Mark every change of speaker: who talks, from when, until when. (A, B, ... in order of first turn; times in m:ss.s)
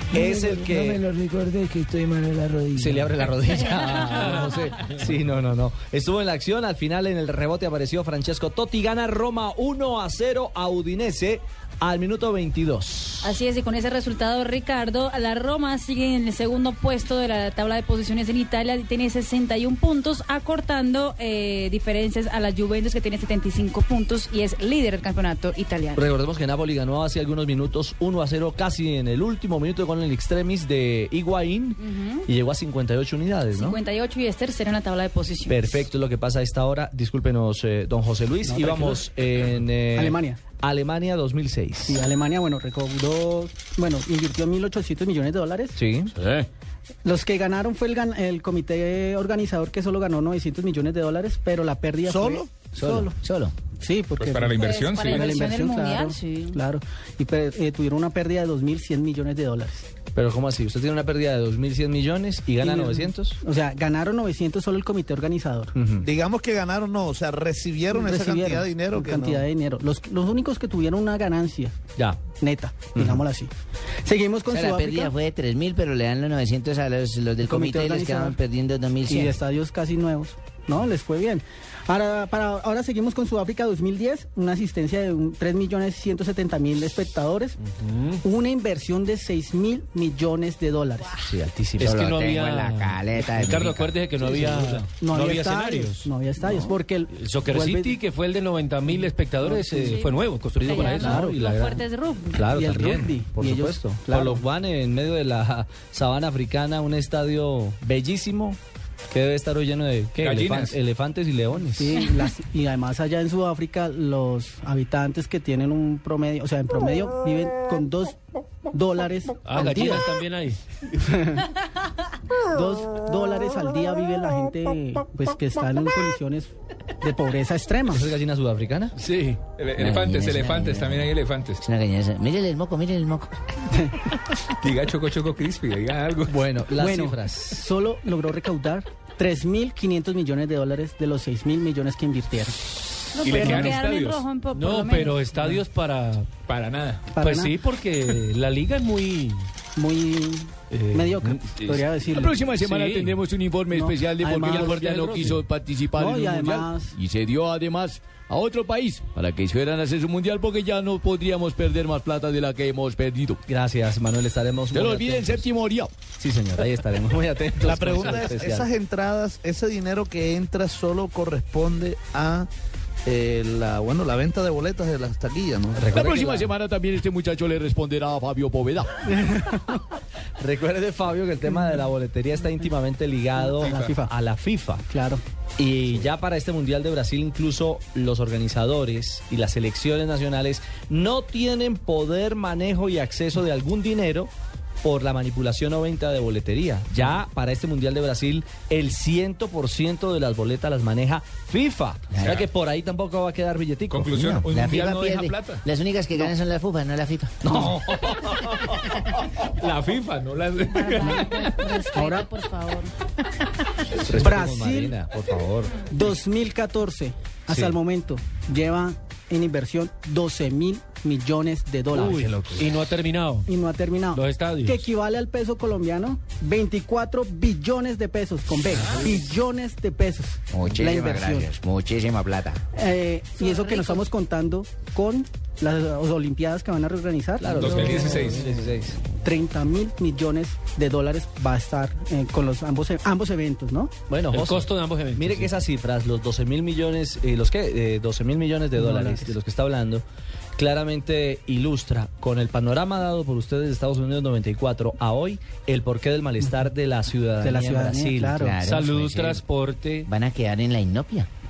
0:00.1-0:01.0 A
0:02.7-0:13.3 A
0:03.7-0:04.6 B
0:13.2-0:26.0 B
0:26.0-0:33.8 A
0:31.8-0:32.3 B
0:33.5-0:35.7 B
0:35.5-0:42.0 A
0:38.4-0:39.1 C
0:39.9-0:40.4 C
0:41.9-0:45.8 C
0:45.8-0:46.1 A
0:47.0-0:53.2 C
0:52.0-0:52.5 D
0:52.8-0:53.5 E
0:53.8-0:59.9 C
0:54.2-0:55.4 F
0:54.6-0:56.6 B
1:00.2-1:03.4 A
1:02.6-1:05.8 C
1:05.8-1:06.1 A
1:06.0-1:09.4 D
1:07.9-1:11.8 C
1:12.4-1:13.5 C
1:12.9-1:13.2 A
1:14.0-1:15.1 C
1:14.5-1:19.4 E
1:17.4-1:18.4 C
1:19.0-1:27.6 C
1:27.8-1:28.2 G
1:28.2-1:31.2 C
1:31.2-1:31.9 A
1:31.8-1:41.3 G
1:31.8-1:33.9 E
1:34.2-1:38.0 C
1:34.3-1:34.6 A
1:38.9-1:40.0 C
1:39.8-1:42.5 B
1:40.8-1:48.6 A
1:40.9-1:41.4 C
1:42.5-1:44.4 C
1:49.1-1:52.0 A
1:50.2-1:50.8 F
1:51.5-1:58.2 C
1:58.7-2:00.1 C
1:59.4-2:00.6 G
2:00.9-2:01.5 C
2:02.5-2:08.1 C
2:07.9-2:09.0 A
2:09.0-2:09.4 G
2:09.6-2:11.6 F
2:09.8-2:13.4 E
2:13.7-2:14.0 C
2:14.6-2:16.3 F
2:16.3-2:17.6 A
2:16.8-2:22.7 C
2:23.2-2:25.2 B
2:23.2-2:24.3 F
2:23.4-2:23.8 C
2:24.5-2:26.3 G
2:26.5-2:27.1 F
2:27.1-2:27.6 C
2:27.2-2:29.5 G
2:29.8-2:32.4 C
2:30.7-2:31.8 G
2:32.2-2:35.9 H
2:32.5-2:33.2 G
2:33.7-2:35.3 C
2:34.5-2:35.5 G
2:35.9-2:37.0 C
2:36.5-2:40.7 H
2:41.2-2:43.3 H
2:43.5-2:45.5 A
2:44.8-2:45.9 H
2:46.2-2:48.7 A
2:47.6-2:52.5 D
2:53.0-2:56.1 D
2:55.8-2:56.5 A
2:56.4-2:57.6 H
2:58.2-2:58.9 H
2:59.1-2:59.8 C
3:00.4-3:04.8 A
3:03.4-3:04.1 C
3:03.6-3:04.0 F
3:04.9-3:05.2 C
3:05.6-3:14.3 A
3:14.8-3:24.2 A
3:22.1-3:22.4 E
3:22.2-3:22.4 F
3:23.9-3:25.6 F
3:24.1-3:27.7 E
3:27.4-3:28.3 A
3:29.4-3:31.6 F
3:30.7-3:32.9 B
3:31.9-3:32.3 C
3:34.0-3:35.8 A
3:34.1-3:35.0 C
3:35.9-3:42.6 C
3:37.5-3:37.7 A
3:41.9-3:43.5 G
3:43.5-3:51.5 C
3:44.1-3:44.9 G
3:50.5-3:52.6 E
3:52.7-3:58.2 C
3:53.4-3:54.1 B
3:57.4-3:59.0 A
3:57.5-3:58.5 F
3:59.2-4:03.9 C
4:04.1-4:10.0 A
4:04.3-4:05.6 G
4:08.7-4:09.4 C
4:10.6-4:18.4 A
4:17.4-4:18.6 C
4:18.4-4:19.4 E
4:18.6-4:20.1 G
4:20.1-4:21.3 E